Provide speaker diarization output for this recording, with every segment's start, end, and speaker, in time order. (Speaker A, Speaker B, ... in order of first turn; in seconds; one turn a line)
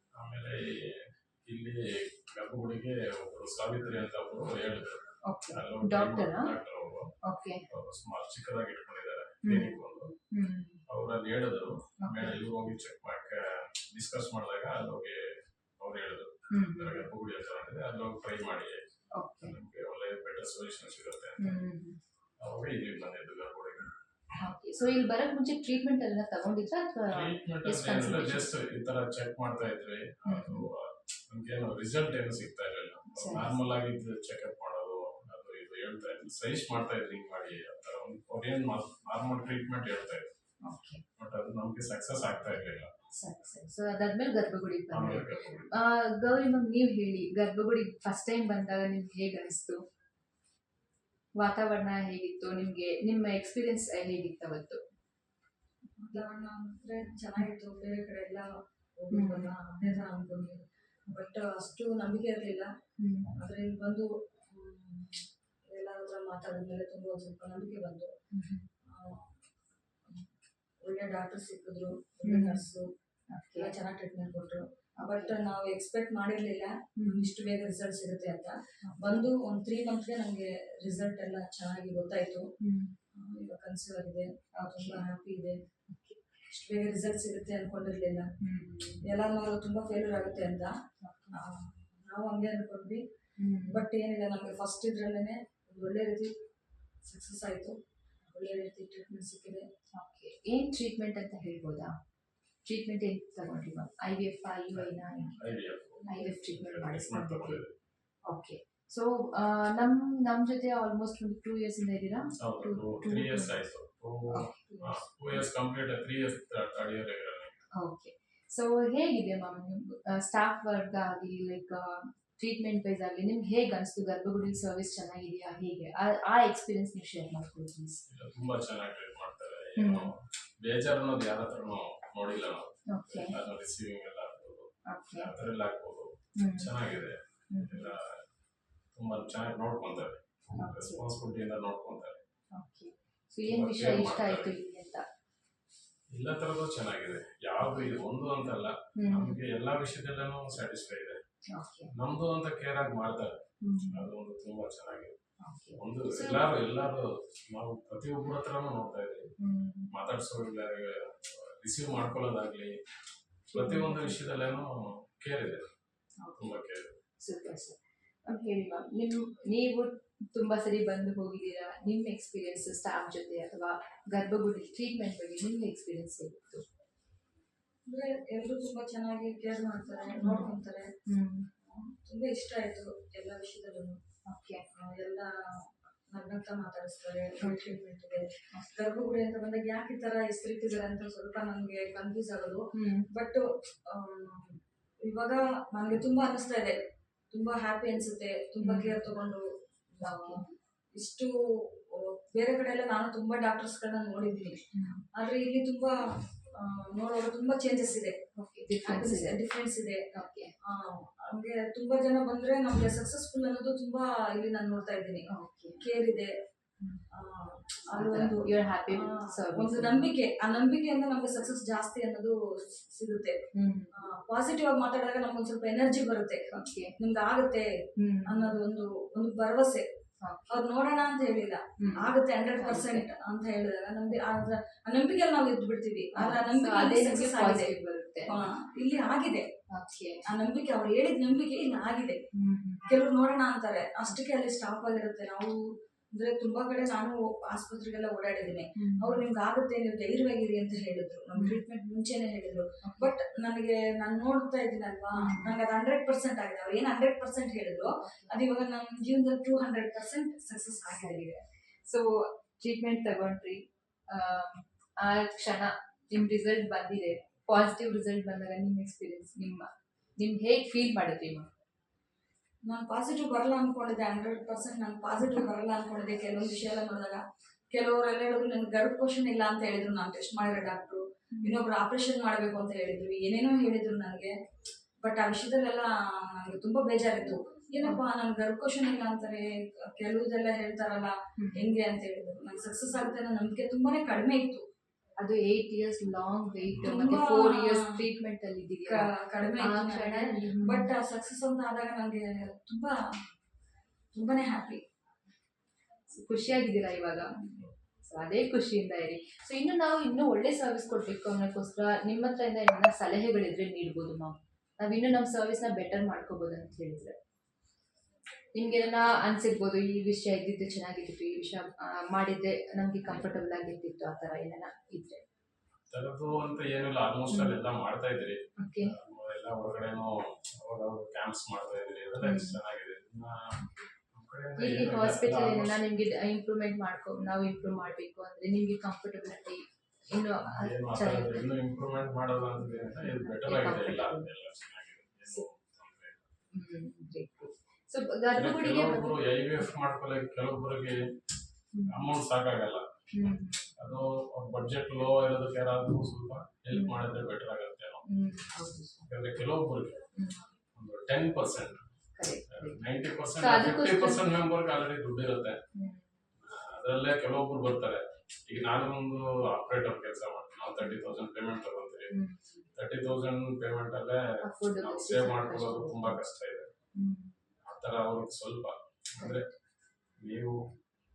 Speaker A: 0.1-7.1
Speaker B: 5.2-6.6
Speaker B: 7.2-7.7
Speaker A: 7.7-10.1
Speaker B: 9.4-9.8
Speaker B: 10.3-10.8
Speaker A: 10.9-21.6
Speaker B: 12.0-12.4
Speaker B: 16.5-17.1
Speaker B: 19.1-19.6
Speaker B: 21.4-22.0
Speaker A: 22.4-23.9
Speaker B: 24.4-28.5
Speaker A: 27.1-40.3
Speaker B: 30.3-30.7
Speaker B: 33.1-33.6
Speaker B: 40.6-41.0
Speaker A: 41.2-42.9
Speaker B: 43.1-49.8
Speaker A: 44.9-45.7
Speaker B: 51.4-54.8
Speaker C: 56.0-58.5
Speaker C: 59.0-62.7
Speaker B: 59.1-59.5
Speaker B: 63.0-63.3
Speaker C: 63.4-68.1
Speaker B: 68.3-68.7
Speaker C: 68.8-69.4
Speaker C: 70.8-72.9
Speaker B: 72.2-72.6
Speaker B: 73.3-73.7
Speaker C: 73.5-82.5
Speaker B: 75.0-75.4
Speaker B: 77.0-77.3
Speaker B: 78.8-79.3
Speaker B: 82.6-83.0
Speaker C: 83.1-85.6
Speaker B: 84.5-85.1
Speaker B: 85.9-86.2
Speaker C: 86.5-88.3
Speaker B: 88.4-89.0
Speaker C: 89.0-90.7
Speaker B: 91.0-91.4
Speaker C: 91.3-93.0
Speaker B: 93.4-93.8
Speaker C: 93.7-96.3
Speaker C: 97.0-97.8
Speaker C: 98.3-99.7
Speaker B: 100.0-101.9
Speaker B: 102.7-105.5
Speaker A: 104.8-107.7
Speaker B: 106.1-107.6
Speaker B: 108.3-113.6
Speaker A: 112.4-117.6
Speaker B: 114.3-115.0
Speaker B: 117.7-128.0
Speaker A: 128.1-138.2
Speaker B: 129.8-130.1
Speaker B: 132.9-133.4
Speaker B: 134.9-135.3
Speaker B: 136.3-136.7
Speaker B: 137.5-137.9
Speaker A: 138.9-142.2
Speaker B: 140.6-141.1
Speaker B: 142.5-145.0
Speaker A: 143.4-144.6
Speaker A: 146.1-151.2
Speaker B: 149.0-149.4
Speaker B: 151.5-151.9
Speaker A: 151.9-153.3
Speaker B: 153.6-154.1
Speaker A: 153.9-155.2
Speaker B: 155.4-156.4
Speaker A: 155.8-159.3
Speaker B: 159.4-159.9
Speaker A: 159.9-162.8
Speaker B: 163.5-164.2
Speaker A: 163.5-165.7
Speaker B: 166.2-166.5
Speaker A: 166.4-167.0
Speaker B: 167.2-176.6
Speaker C: 177.9-180.9
Speaker B: 180.2-180.5
Speaker B: 181.1-181.5
Speaker C: 181.6-184.0
Speaker B: 184.3-184.6
Speaker C: 184.8-196.8
Speaker B: 187.4-187.8
Speaker B: 192.7-193.1
Speaker C: 197.3-199.4
Speaker B: 198.6-199.0
Speaker C: 199.9-204.6
Speaker B: 200.0-200.4
Speaker B: 204.7-205.1
Speaker C: 205.2-208.2
Speaker B: 208.3-209.4
Speaker C: 208.8-210.1
Speaker B: 210.1-210.5
Speaker C: 210.6-215.3
Speaker B: 215.3-215.9
Speaker C: 215.8-216.3
Speaker C: 217.1-223.4
Speaker B: 217.9-220.1
Speaker B: 223.5-223.9
Speaker C: 224.0-227.7
Speaker B: 226.5-226.9
Speaker B: 228.0-228.6
Speaker C: 228.3-229.8
Speaker B: 230.2-230.6
Speaker C: 230.5-237.7
Speaker B: 231.8-233.1
Speaker B: 236.1-238.4
Speaker C: 238.3-239.5
Speaker B: 239.7-240.2
Speaker C: 240.3-242.2
Speaker B: 242.3-242.9
Speaker C: 242.9-261.4
Speaker B: 248.8-249.2
Speaker B: 251.3-251.6
Speaker B: 252.8-253.1
Speaker B: 255.2-255.6
Speaker B: 257.8-258.4
Speaker B: 261.9-271.5
Speaker C: 272.7-284.3
Speaker B: 281.3-281.6
Speaker C: 285.0-294.6
Speaker B: 291.4-291.7
Speaker B: 295.2-300.9
Speaker A: 296.7-297.2
Speaker C: 296.8-297.9
Speaker C: 298.9-303.0
Speaker C: 304.1-304.8
Speaker B: 306.1-307.4
Speaker B: 308.0-317.1
Speaker B: 318.5-325.2
Speaker A: 325.9-335.8
Speaker B: 327.3-327.6
Speaker B: 328.6-329.0
Speaker B: 332.2-332.6
Speaker B: 334.6-341.5
Speaker A: 340.5-346.3
Speaker B: 343.0-344.3
Speaker B: 346.5-349.5
Speaker A: 348.3-351.0
Speaker B: 351.7-352.1
Speaker A: 351.9-353.0
Speaker B: 353.1-353.7
Speaker A: 353.8-358.0
Speaker B: 356.7-357.0
Speaker B: 358.0-359.1
Speaker A: 359.1-360.0
Speaker B: 360.1-360.5
Speaker A: 360.8-361.8
Speaker B: 362.1-362.8
Speaker A: 362.5-365.6
Speaker B: 363.4-364.3
Speaker B: 365.7-366.1
Speaker A: 366.4-372.1
Speaker B: 372.1-372.7
Speaker A: 372.8-374.2
Speaker B: 374.4-376.2
Speaker A: 374.8-376.7
Speaker B: 376.9-377.3
Speaker A: 377.6-379.5
Speaker A: 380.2-380.6